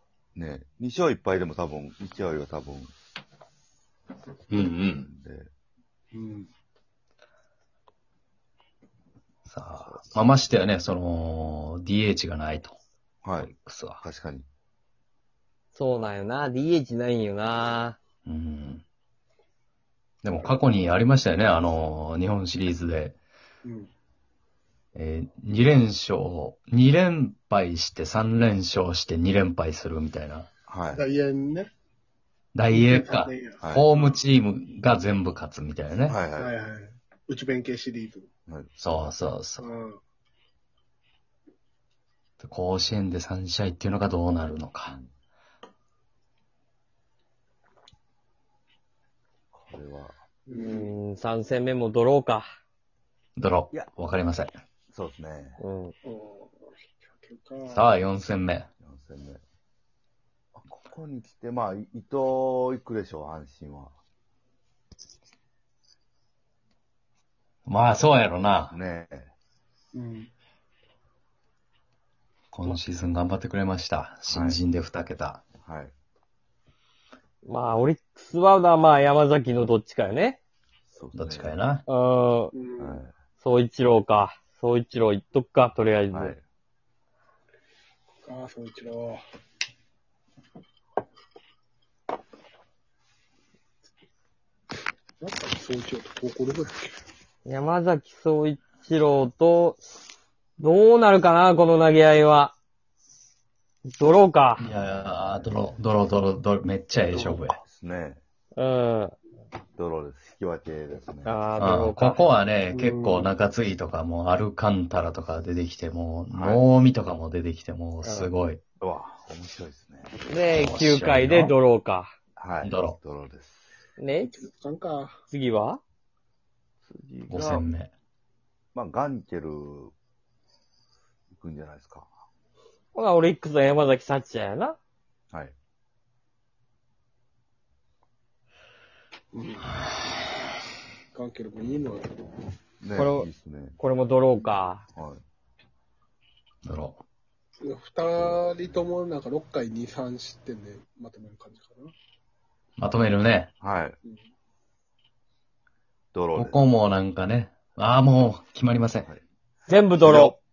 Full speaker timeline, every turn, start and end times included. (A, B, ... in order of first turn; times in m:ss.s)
0:00.4-0:02.9 A
0:04.5-0:05.1 B
0:04.9-0:05.5 A
0:06.1-0:06.5 C
0:09.5-0:12.8 B
0:13.2-0:14.5 A
0:13.4-0:14.0 B
0:15.7-0:18.0 D
0:18.3-0:18.8 B
0:20.2-0:23.2 B
0:20.4-0:20.6 C
0:23.6-0:23.9 C
0:25.0-0:30.5 B
0:30.7-0:31.0 A
0:30.9-0:31.7 C
0:32.6-0:36.2 B
0:32.7-0:34.2 C
0:33.6-0:33.9 A
0:36.1-0:36.5 A
0:36.4-0:38.3 C
0:38.8-0:39.7 B
0:39.6-0:40.0 C
0:42.4-0:45.0 B
0:49.5-0:50.2 A
0:50.5-0:50.9 C
0:50.5-0:52.5 D
0:53.4-0:54.6 B
0:54.9-0:55.6 A
0:55.6-0:56.0 D
0:56.0-0:57.9 C
0:57.7-0:58.7 B
0:58.8-0:59.4 A
1:00.6-1:04.0 A
1:07.7-1:08.8 B
1:08.7-1:09.3 A
1:09.9-1:10.3 C
1:12.5-1:15.4 B
1:14.3-1:14.6 A
1:15.6-1:15.9 A
1:17.4-1:20.4 D
1:20.9-1:21.6 A
1:21.2-1:21.8 B
1:21.9-1:22.5 D
1:22.5-1:23.0 C
1:22.8-1:23.1 A
1:23.4-1:26.4 D
1:26.1-1:26.4 A
1:28.2-1:29.2 C
1:35.2-1:37.0 C
1:37.4-1:39.8 D
1:40.6-1:42.5 D
1:43.9-1:44.6 D
1:44.6-1:47.6 B
1:44.8-1:45.7 A
1:47.6-1:48.2 A
1:48.6-1:49.2 D
1:49.8-1:51.4 A
1:51.2-1:52.4 D
1:51.6-1:58.6 B
1:52.7-1:53.3 C
1:56.3-1:56.6 A
1:58.0-1:58.3 C
1:58.8-2:00.2 A
2:00.2-2:02.1 D
2:00.5-2:01.6 B
2:02.4-2:03.6 A
2:02.6-2:03.0 B
2:04.0-2:04.3 D
2:04.2-2:05.2 C
2:05.3-2:05.8 D
2:06.9-2:07.7 A
2:07.3-2:07.9 B
2:08.7-2:09.9 A
2:11.3-2:12.1 A
2:12.9-2:14.8 D
2:19.3-2:19.7 C
2:21.1-2:22.3 C
2:22.8-2:23.8 A
2:23.0-2:24.8 D
2:26.6-2:27.0 B
2:27.6-2:31.9 C
2:32.8-2:33.5 B
2:33.6-2:34.0 A
2:36.1-2:36.6 A
2:36.4-2:39.1 B
2:39.7-2:40.4 D
2:40.0-2:40.4 A